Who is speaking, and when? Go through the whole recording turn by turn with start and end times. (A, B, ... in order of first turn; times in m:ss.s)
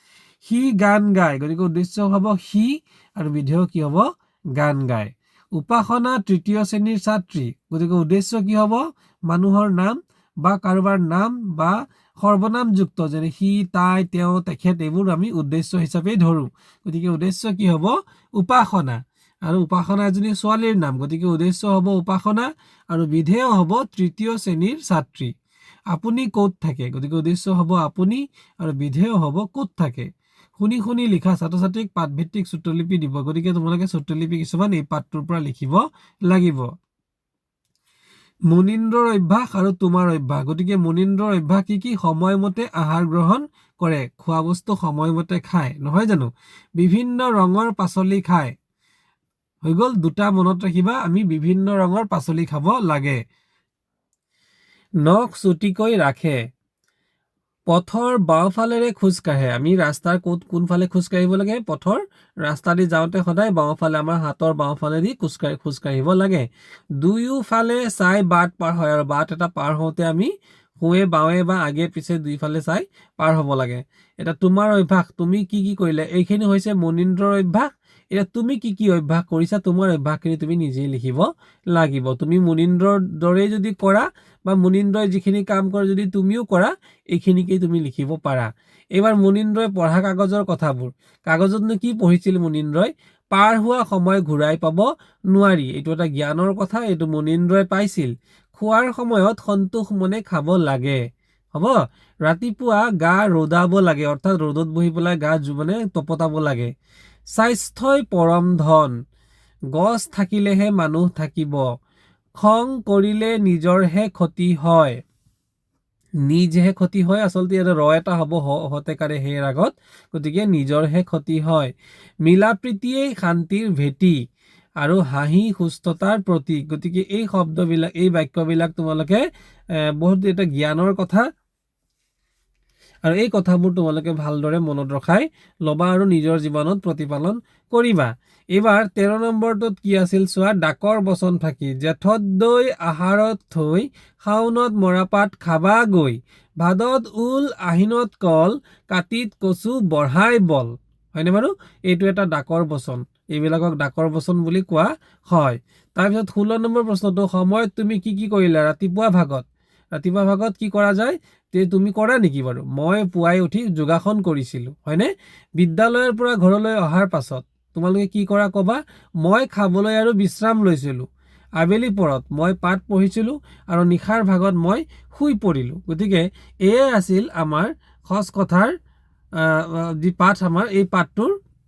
0:00.4-0:25.3 A
0:25.9-0:36.7 A
0:38.5-0:48.5 A
0:49.6-0:53.2 A
0:55.0-0:56.4 A
0:57.7-1:06.5 A
1:07.0-1:41.0 A
1:41.5-1:46.7 A
1:47.3-1:48.9 A
1:49.7-1:51.7 A
1:52.4-1:55.0 A
1:56.2-2:01.7 A
2:02.2-2:04.2 A
2:04.8-2:11.2 A
2:13.0-2:51.1 A
2:51.6-2:58.8 A
2:59.4-3:01.4 A